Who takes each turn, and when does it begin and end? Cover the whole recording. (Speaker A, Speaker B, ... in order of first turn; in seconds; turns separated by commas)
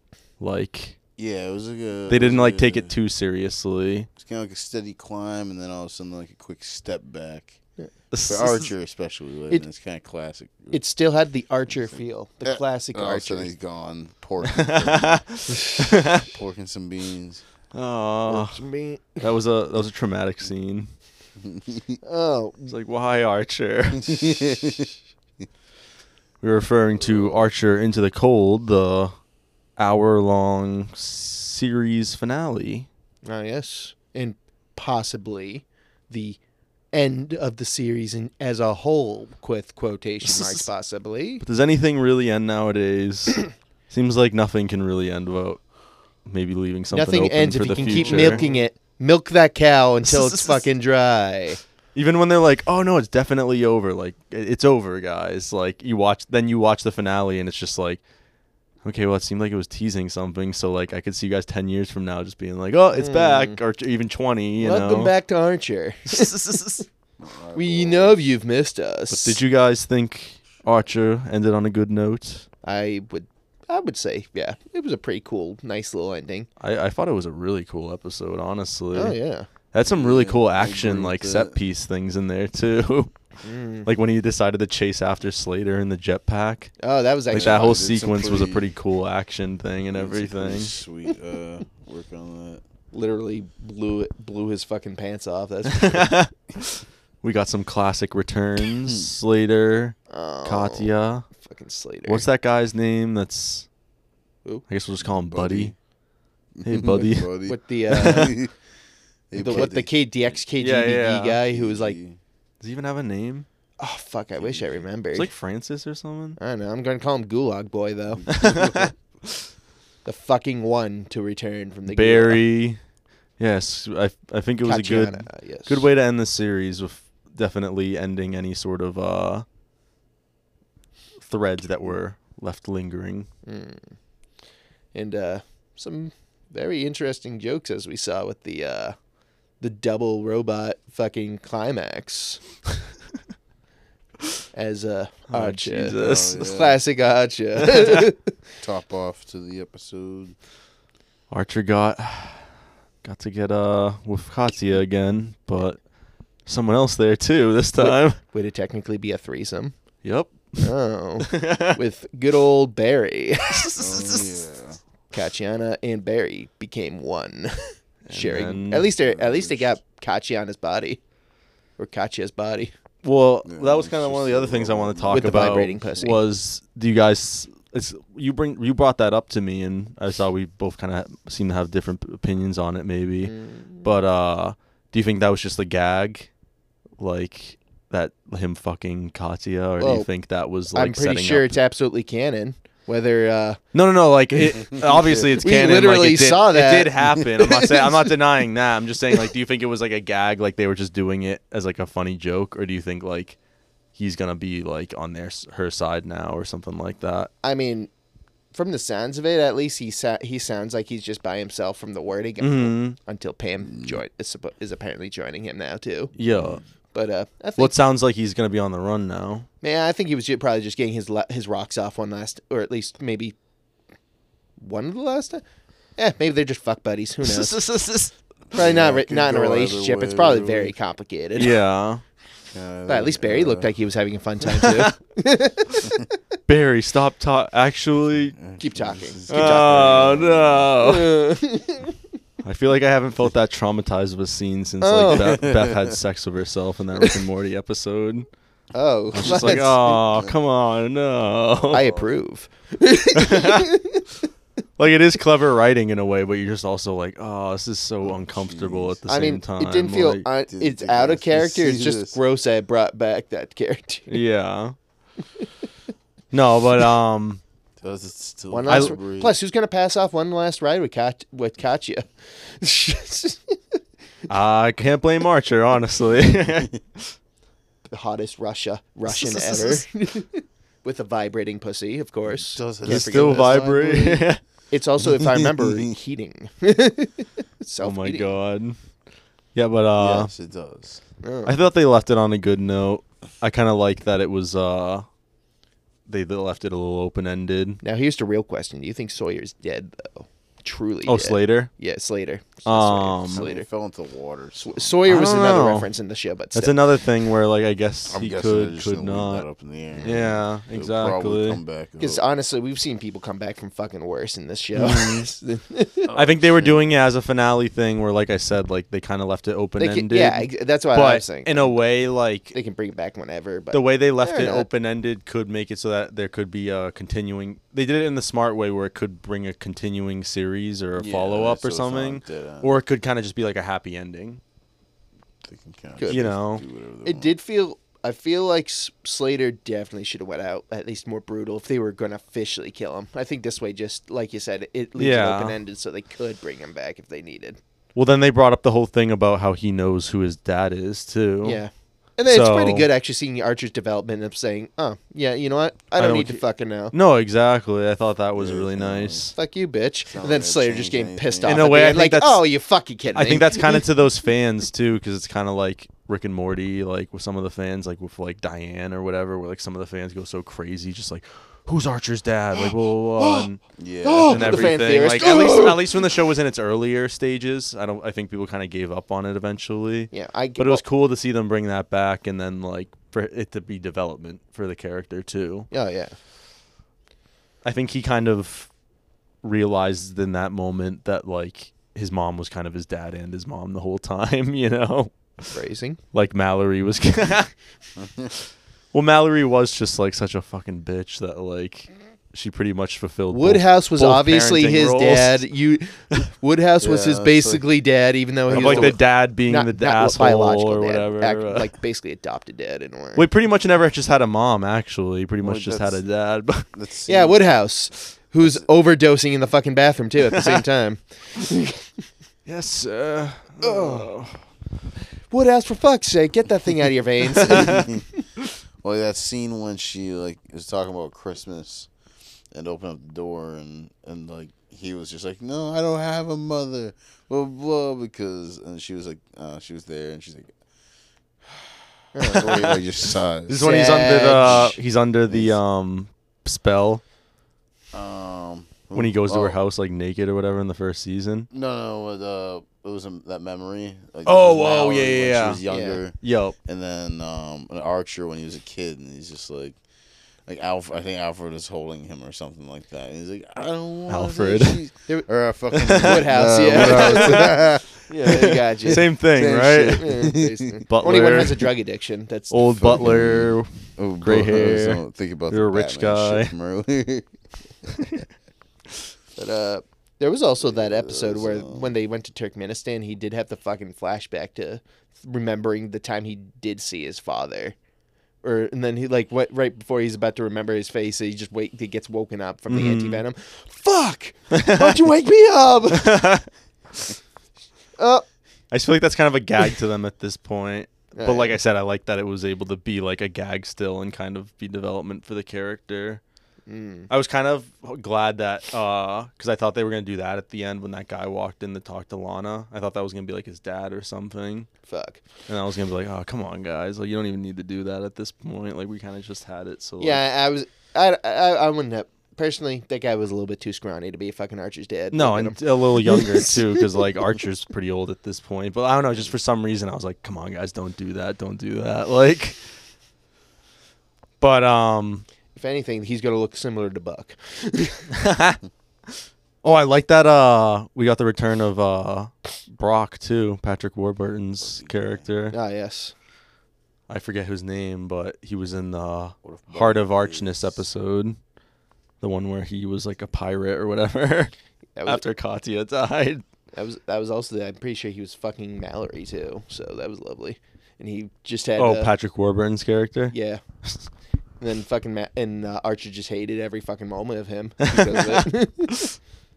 Speaker A: 0.4-1.0, Speaker B: 1.2-2.9, Speaker A: 2.1-4.1, Speaker B: 4.2-7.6, Speaker A: 8.1-8.7, Speaker B: 8.3-10.8, Speaker C: 10.7-13.5, Speaker B: 11.7-15.3, Speaker A: 14.4-16.3, Speaker B: 16.1-17.4, Speaker A: 17.7-18.6, Speaker C: 18.3-19.2, Speaker A: 19.2-20.9, Speaker B: 21.4-22.0, Speaker C: 22.0-22.7, Speaker A: 22.7-24.5, Speaker B: 23.9-24.9, Speaker A: 26.4-29.1, Speaker B: 27.0-27.5, Speaker A: 29.8-32.9, Speaker C: 33.2-36.4, Speaker C: 36.9-41.4, Speaker A: 40.2-40.7, Speaker A: 41.4-45.6, Speaker A: 46.2-48.4, Speaker C: 46.9-51.6, Speaker B: 47.8-48.6, Speaker A: 50.0-50.6, Speaker A: 51.9-58.0, Speaker A: 58.8-65.1, Speaker C: 62.9-63.6, Speaker C: 64.6-66.8, Speaker A: 66.1-66.8, Speaker B: 67.2-68.2, Speaker C: 67.5-69.4, Speaker A: 69.1-72.5, Speaker C: 72.6-76.5, Speaker A: 76.6-79.2, Speaker C: 78.9-79.5, Speaker A: 79.7-83.1, Speaker B: 79.8-81.6, Speaker C: 83.4-83.9, Speaker A: 83.8-86.7, Speaker C: 86.8-87.8, Speaker B: 87.3-88.7, Speaker A: 87.3-90.7, Speaker B: 89.9-92.6, Speaker C: 92.9-96.1, Speaker A: 95.7-101.3, Speaker C: 100.1-102.2, Speaker A: 102.0-103.7, Speaker A: 104.7-105.7, Speaker B: 105.0-105.8, Speaker B: 106.5-108.5, Speaker A: 106.6-108.3, Speaker C: 107.4-108.4, Speaker B: 109.3-110.4, Speaker C: 109.4-112.0, Speaker A: 109.4-109.7, Speaker A: 110.6-111.4, Speaker B: 111.5-112.2, Speaker A: 112.6-113.5, Speaker C: 113.8-115.3, Speaker B: 114.4-114.8, Speaker A: 115.1-116.4, Speaker C: 116.4-118.9, Speaker B: 118.2-118.9, Speaker A: 118.3-118.9, Speaker C: 120.0-122.4, Speaker A: 121.9-122.8, Speaker A: 123.4-129.4, Speaker C: 124.6-125.9, Speaker A: 131.2-133.3, Speaker C: 133.4-133.9, Speaker C: 134.9-138.9, Speaker C: 139.6-142.4, Speaker C: 144.5-148.3, Speaker A: 145.3-146.4, Speaker B: 146.0-146.8, Speaker A: 147.7-148.0, Speaker B: 148.6-150.3, Speaker A: 151.3-152.5, Speaker A: 153.0-155.8, Speaker A: 156.4-158.2, Speaker C: 157.8-159.8, Speaker A: 160.0-161.8, Speaker C: 160.6-163.8, Speaker A: 163.5-164.4, Speaker B: 163.8-164.8, Speaker C: 165.1-171.0, Speaker A: 168.1-168.9, Speaker B: 169.1-169.8, Speaker C: 171.8-172.7, Speaker A: 173.0-186.3, Speaker B: 173.4-176.2, Speaker C: 175.1-176.2, Speaker C: 183.2-183.9, Speaker A: 187.0-191.5, Speaker C: 189.8-190.1, Speaker C: 190.7-193.6, Speaker A: 193.7-203.3, Speaker C: 195.3-198.2, Speaker A: 203.9-207.3, Speaker C: 207.4-207.9, Speaker C: 208.5-216.1, Speaker A: 212.4-213.0, Speaker B: 213.7-214.0, Speaker A: 216.2-216.6, Speaker B: 216.2-216.6, Speaker C: 216.9-217.8, Speaker A: 217.6-219.5, Speaker C: 219.6-223.3, Speaker C: 224.6-225.4, Speaker C: 226.0-227.6, Speaker A: 227.2-228.1, Speaker B: 228.5-230.7, Speaker C: 228.5-231.6, Speaker A: 231.4-232.0, Speaker B: 232.5-233.7, Speaker C: 232.9-236.2, Speaker A: 234.4-234.9, Speaker A: 236.5-238.4, Speaker B: 238.3-240.8, Speaker C: 238.6-240.3, Speaker A: 239.3-241.2, Speaker C: 240.8-241.9, Speaker A: 242.4-248.3, Speaker C: 244.8-245.4, Speaker B: 245.2-245.9, Speaker C: 248.7-250.0, Speaker A: 249.1-251.9, Speaker B: 249.2-250.3, Speaker B: 251.7-252.1, Speaker C: 251.7-254.3, Speaker A: 253.1-253.7, Speaker A: 254.8-260.2, Speaker B: 258.0-259.0, Speaker C: 259.1-264.2, Speaker B: 260.5-262.2, Speaker A: 264.1-264.8, Speaker A: 266.3-267.4, Speaker B: 267.8-269.3, Speaker C: 268.5-273.8, Speaker A: 268.7-268.9, Speaker A: 274.3-277.1, Speaker C: 277.9-283.6, Speaker A: 279.1-279.8, Speaker B: 282.3-284.3, Speaker A: 282.8-284.4, Speaker C: 284.7-288.3, Speaker B: 285.0-285.9, Speaker A: 287.8-288.8, Speaker A: 289.5-290.3, Speaker B: 289.9-291.0, Speaker C: 291.2-291.5, Speaker A: 291.4-295.1, Speaker A: 296.1-297.8, Speaker C: 297.8-303.7, Speaker A: 301.1-301.7, Speaker A: 302.6-303.5, Speaker B: 303.3-305.0, Speaker C: 304.6-306.8, Speaker A: 305.1-305.9, Speaker A: 306.5-309.5, Speaker B: 308.1-312.2, Speaker A: 310.0-311.6, Speaker C: 312.0-316.1, Speaker A: 314.7-315.3, Speaker B: 316.1-316.8, Speaker A: 316.1-322.6, Speaker C: 319.8-321.8, Speaker C: 322.5-324.7, Speaker A: 323.7-334.4, Speaker B: 330.9-332.8, Speaker B: 335.4-337.3, Speaker C: 336.0-336.3, Speaker A: 336.1-336.6, Speaker C: 337.0-347.6, Speaker A: 345.0-345.6, Speaker A: 347.9-351.6, Speaker C: 351.4-356.9, Speaker A: 352.2-352.9, Speaker A: 356.0-356.4, Speaker A: 356.9-359.3, Speaker B: 358.4-359.3, Speaker C: 359.3-364.0, Speaker B: 360.1-361.7, Speaker A: 361.4-362.5, Speaker A: 363.1-373.6, Speaker C: 373.2-373.5, Speaker B: 373.8-375.0, Speaker C: 374.0-376.0, Speaker A: 374.3-385.7, Speaker C: 380.1-380.8, Speaker C: 385.7-386.1, Speaker A: 387.6-388.7, Speaker A: 389.4-395.6, Speaker C: 395.5-396.0, Speaker A: 396.1-397.5, Speaker B: 398.0-398.3, Speaker A: 398.9-405.4, Speaker C: 403.3-413.2, Speaker B: 406.8-407.6, Speaker B: 408.5-409.0, Speaker A: 408.5-411.7, Speaker A: 413.1-416.7, Speaker B: 415.4-416.0, Speaker B: 416.7-417.4, Speaker C: 417.1-421.9, Speaker A: 420.3-420.6, Speaker A: 422.4-424.4, Speaker C: 423.6-424.1, Speaker C: 425.3-428.0, Speaker B: 427.5-428.0, Speaker B: 428.8-431.9, Speaker B: 432.5-440.6, Speaker B: 441.4-443.6, Speaker C: 442.1-442.8, Speaker A: 443.5-447.0, Speaker C: 443.6-444.8, Speaker B: 444.4-444.7, Speaker B: 445.3-445.6, Speaker B: 447.9-449.6, Speaker A: 448.9-451.5, Speaker B: 451.5-459.8, Speaker A: 454.2-455.6, Speaker C: 455.7-456.0, Speaker A: 456.2-456.6, Speaker B: 460.4-470.9, Speaker A: 464.1-464.9, Speaker A: 465.7-467.6, Speaker C: 465.9-469.1, Speaker A: 468.2-470.2, Speaker C: 469.9-473.1, Speaker A: 470.9-471.7, Speaker A: 472.5-476.5, Speaker B: 472.7-477.3, Speaker A: 477.9-478.2, Speaker C: 479.4-487.8, Speaker B: 480.6-481.9, Speaker C: 488.4-496.2, Speaker A: 492.7-493.2, Speaker A: 494.5-495.1, Speaker A: 495.9-496.4, Speaker C: 498.0-498.2, Speaker A: 498.7-506.2, Speaker C: 501.1-501.6, Speaker C: 506.7-507.1, Speaker A: 507.1-514.7, Speaker C: 514.9-515.2, Speaker A: 515.5-520.2, Speaker C: 520.0-527.3, Speaker A: 525.1-532.6, Speaker A: 534.4-535.3, Speaker C: 535.5-538.1, Speaker A: 538.1-538.6, Speaker A: 539.6-545.5, Speaker B: 544.6-545.3, Speaker C: 545.5-546.1, Speaker A: 547.1-551.4, Speaker B: 549.4-550.8, Speaker A: 552.2-554.5, Speaker C: 555.0-555.2, Speaker A: 555.0-556.4, Speaker C: 556.7-562.1, Speaker A: 561.8-563.3, Speaker C: 563.3-563.6, Speaker C: 564.6-569.1, Speaker A: 567.8-569.1